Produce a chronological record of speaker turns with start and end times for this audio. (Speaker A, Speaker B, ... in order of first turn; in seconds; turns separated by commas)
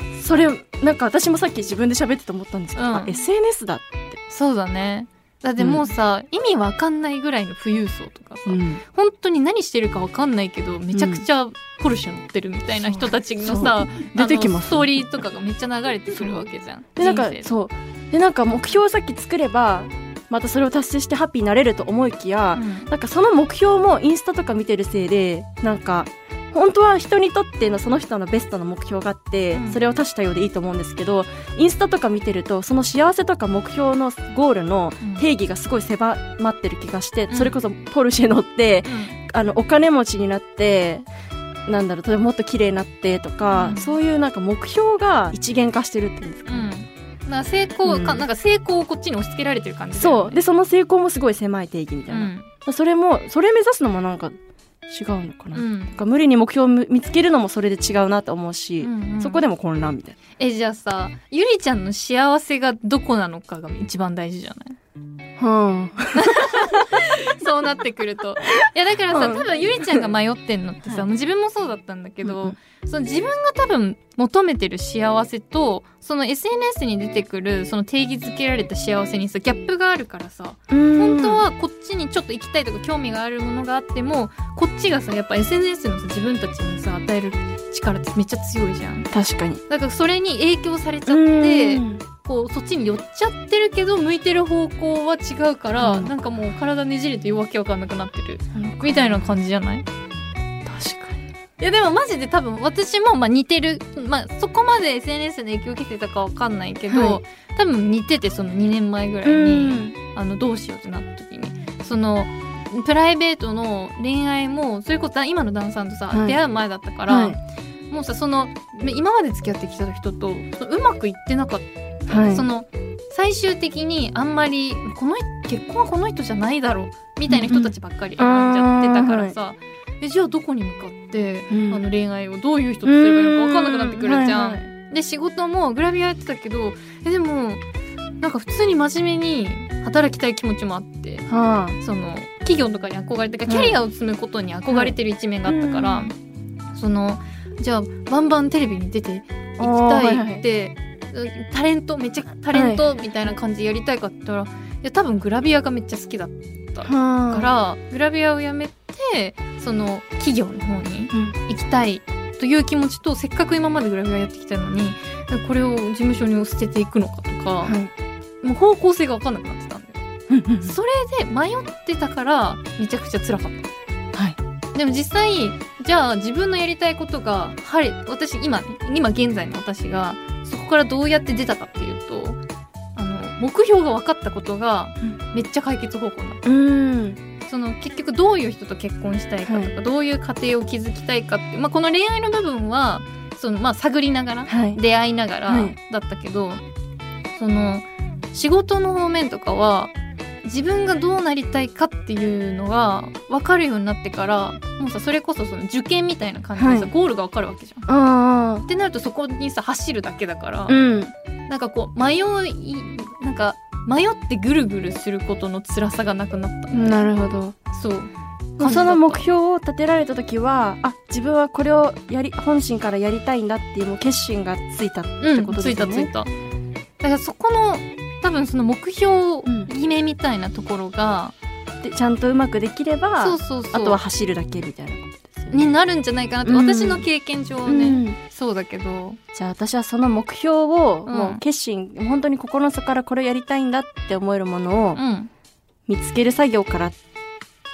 Speaker A: 0.1-4.2, Speaker B: 2.8-3.1, Speaker B: 4.3-17.5, Speaker A: 5.6-5.8, Speaker A: 8.5-8.8, Speaker A: 10.9-11.2, Speaker A: 12.8-15.1, Speaker A: 16.1-16.4, Speaker A: 17.0-41.1, Speaker B: 22.5-22.9, Speaker B: 29.5-29.8, Speaker B: 38.9-39.1, Speaker A: 41.6-46.7, Speaker B: 43.5-43.9, Speaker B: 46.5-50.4, Speaker A: 47.8-48.2, Speaker A: 50.0-54.4, Speaker B: 52.1-52.5, Speaker A: 54.9-60.2, Speaker B: 55.5-55.9, Speaker B: 58.8-59.4, Speaker B: 60.4-64.8, Speaker A: 65.4-66.9, Speaker B: 66.1-89.1, Speaker A: 69.1-70.1, Speaker A: 72.2-72.5, Speaker A: 80.7-81.4, Speaker A: 89.1-89.6, Speaker B: 89.7-99.8, Speaker A: 91.0-92.0, Speaker A: 95.8-96.1, Speaker A: 98.5-99.3, Speaker A: 100.6-101.2, Speaker B: 101.6-117.4, Speaker A: 106.9-107.2, Speaker A: 109.2-110.0, Speaker A: 116.1-116.4, Speaker A: 117.1-117.4, Speaker B: 117.9-137.6, Speaker A: 122.1-122.4, Speaker A: 127.3-129.3, Speaker A: 131.5-131.8, Speaker A: 132.8-134.7, Speaker B: 138.2-141.2, Speaker A: 141.3-141.8, Speaker B: 141.8-146.1, Speaker A: 143.4-143.8, Speaker A: 144.7-146.1, Speaker B: 146.7-167.8, Speaker A: 149.6-150.4, Speaker A: 152.5-152.8, Speaker A: 156.8-157.5, Speaker A: 167.6-167.9, Speaker B: 168.4-170.0, Speaker A: 170.3-170.7, Speaker B: 170.6-173.7, Speaker B: 174.7-182.4, Speaker B: 182.9-186.4, Speaker A: 186.4-187.2, Speaker B: 187.4-196.6, Speaker A: 189.4-189.7, Speaker A: 194.5-194.8, Speaker A: 195.5-195.8, Speaker B: 197.3-199.9, Speaker B: 200.4-207.9, Speaker A: 206.6-206.9, Speaker A: 207.9-208.7, Speaker B: 208.7-210.8, Speaker A: 210.7-211.1, Speaker B: 211.5-217.0, Speaker A: 216.7-217.6, Speaker B: 217.7-219.2, Speaker A: 218.6-226.1, Speaker B: 225.2-226.3, Speaker B: 227.0-231.3, Speaker A: 229.4-229.7, Speaker A: 231.8-235.7, Speaker B: 233.2-234.0, Speaker B: 235.5-239.2, Speaker A: 236.4-237.1, Speaker A: 237.7-238.2, Speaker A: 239.3-245.0, Speaker B: 241.1-241.4, Speaker B: 244.9-245.3, Speaker A: 245.9-247.0